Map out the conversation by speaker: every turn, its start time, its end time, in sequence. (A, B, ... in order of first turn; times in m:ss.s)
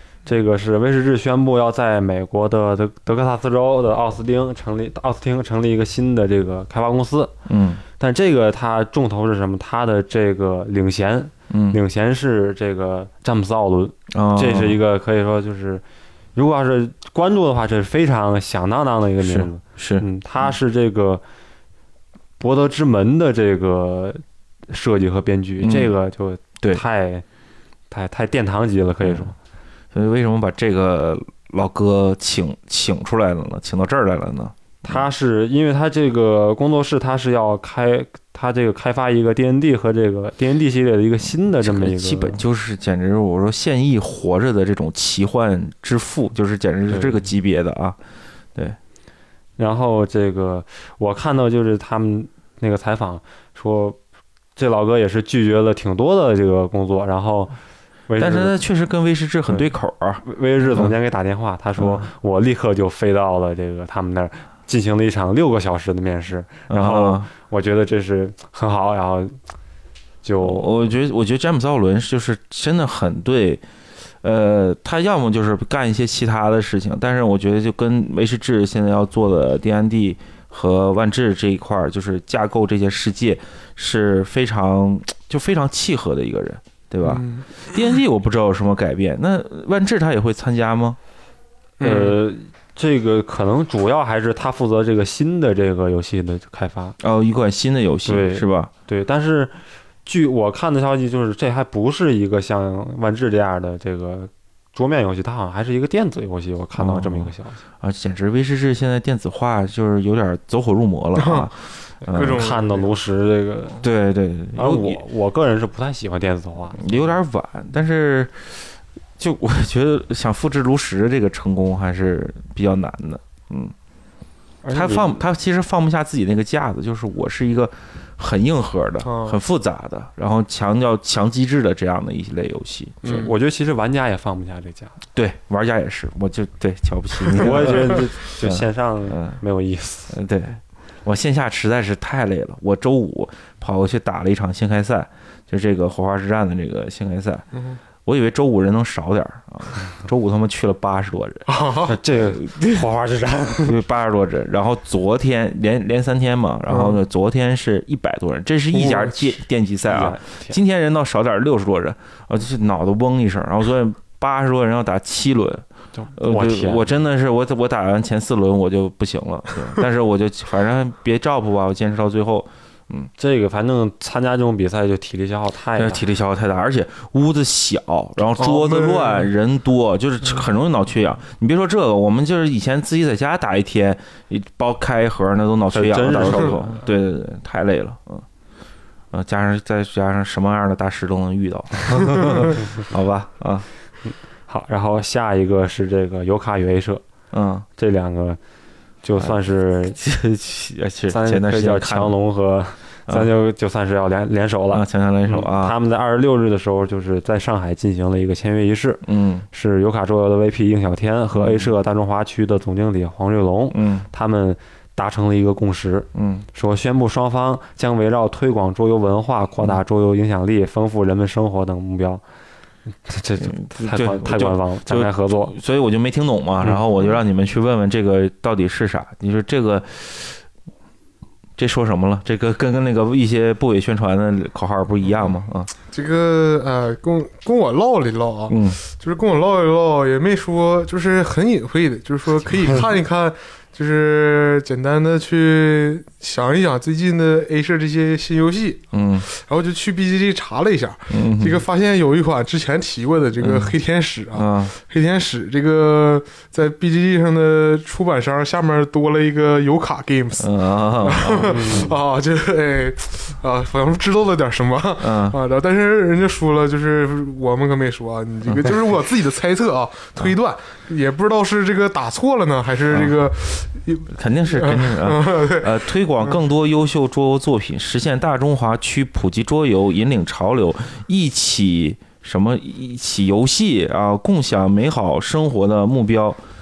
0:00.3-0:07.3 A
0:07.5-0:07.8 B
0:08.0-0:15.8 A
0:11.5-0:11.8 B
0:14.1-0:14.8 B
0:16.4-0:21.2 A
0:19.2-0:20.5 B
0:22.4-0:27.2 A
0:25.6-0:25.9 B
0:27.9-0:29.4 A
0:29.0-0:29.3 B
0:29.9-0:35.0 B
0:34.8-0:42.4 A
0:41.6-0:48.0 B
0:46.9-0:47.2 A
0:49.6-0:54.0 A
0:54.6-0:57.6 A
0:58.1-0:58.6 A
0:58.2-1:00.2 B
0:59.5-1:09.4 A
1:01.8-1:02.0 B
1:06.7-1:07.3 B
1:10.2-1:10.7 A
1:10.4-1:13.6 B
1:14.2-1:31.0 B
1:27.0-1:27.5 C
1:31.8-1:32.2 C
1:31.8-1:37.0 A
1:37.0-1:38.7 B
1:38.1-1:47.6 A
1:46.8-1:52.4 B
1:51.2-1:51.5 C
1:52.0-1:52.9 C
1:52.1-1:53.8 A
1:53.8-1:55.0 B
1:54.5-1:57.0 A
1:56.8-2:03.8 B
2:04.6-2:05.2 A
2:04.7-2:13.1 B
2:09.0-2:09.4 C
2:13.0-2:13.3 C
2:13.0-2:14.9 A
2:15.2-2:19.4 B
2:17.4-2:20.2 A
2:20.1-2:27.5 B
2:27.5-2:27.8 C
2:28.0-2:31.5 B
2:31.5-2:32.0 C
2:31.9-2:33.8 A
2:32.2-2:32.8 B
2:33.6-2:53.1 B
2:36.7-2:37.0 C
2:38.8-2:39.2 C
2:39.9-2:40.6 A
2:45.9-2:46.9 A
2:53.2-2:56.0 A
2:55.8-3:08.3 B
2:58.4-2:59.3 C
3:05.7-3:06.8 A
3:09.1-3:13.7 B
3:14.5-3:17.0 A
3:17.3-3:17.7 B
3:17.8-3:18.4 A
3:19.0-3:20.0 A
3:20.0-3:22.2 B
3:21.1-3:42.2 A
3:24.7-3:25.8 B
3:29.0-3:29.5 B
3:31.4-3:31.7 B
3:33.7-3:34.1 B
3:36.1-3:36.5 B
3:43.0-3:45.6 A
3:43.4-3:50.4 B
3:51.6-3:55.7 B
3:55.1-4:36.4 C
3:58.5-3:58.8 B
4:08.9-4:09.3 B
4:11.1-4:11.6 B
4:13.4-4:13.8 B
4:14.3-4:14.8 B
4:20.4-4:21.8 B
4:21.5-4:21.9 A
4:25.0-4:25.4 B
4:28.4-4:28.7 B
4:32.9-4:33.1 B
4:34.1-4:46.4 B